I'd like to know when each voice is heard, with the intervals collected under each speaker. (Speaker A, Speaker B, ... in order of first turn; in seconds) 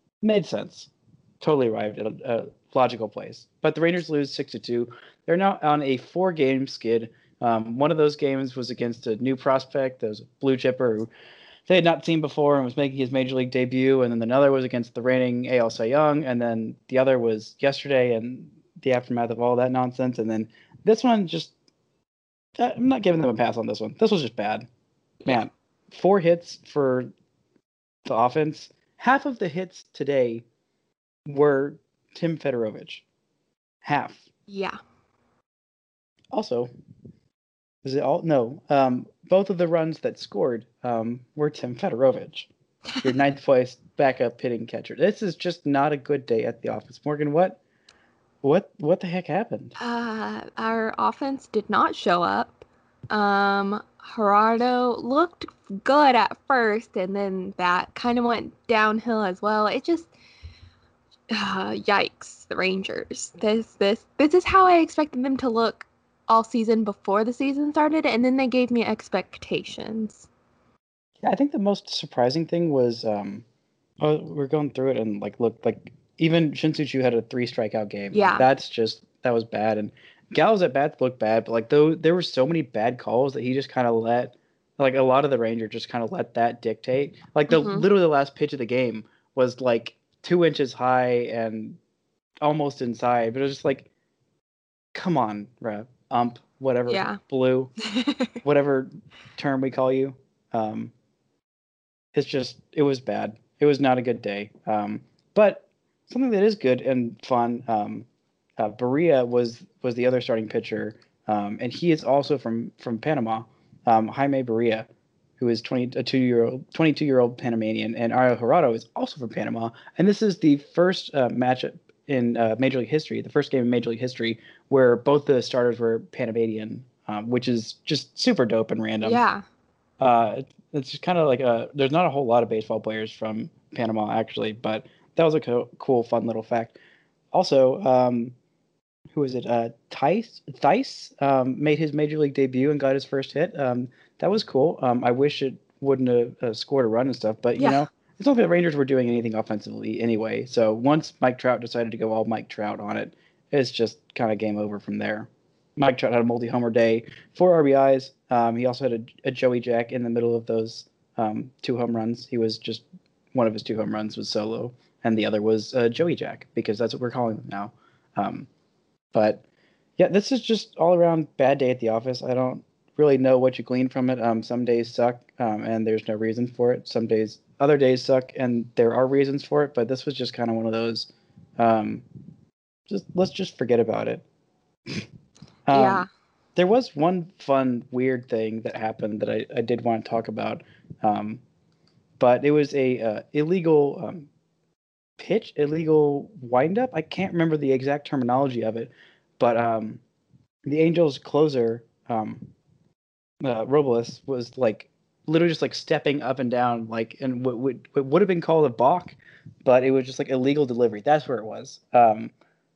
Speaker A: 0.2-0.9, 1.4-11.1, 11.7-21.5, 22.6-24.7, 25.2-27.1, 28.1-30.4, 31.2-33.0, 33.8-34.2, 36.3-36.7, 37.8-42.5, 43.0-47.6, 48.4-49.8, 71.2-73.4, 74.0-91.8, 92.4-93.9, 94.9-97.8, 98.4-100.9, 102.1-129.2, 130.0-136.8, 137.3-138.3, 139.1-168.5, 169.1-169.4, 170.0-182.1, 182.9-184.2, 185.7-191.4, 192.2-194.3, 195.2-200.0, 200.7-202.5, 203.4-212.3
Speaker B: 34.5-34.8, 49.8-60.1, 61.3-70.3, 78.1-78.5, 87.5-87.9, 96.9-97.2, 97.9-98.3, 129.0-129.4, 147.6-147.9, 185.7-186.1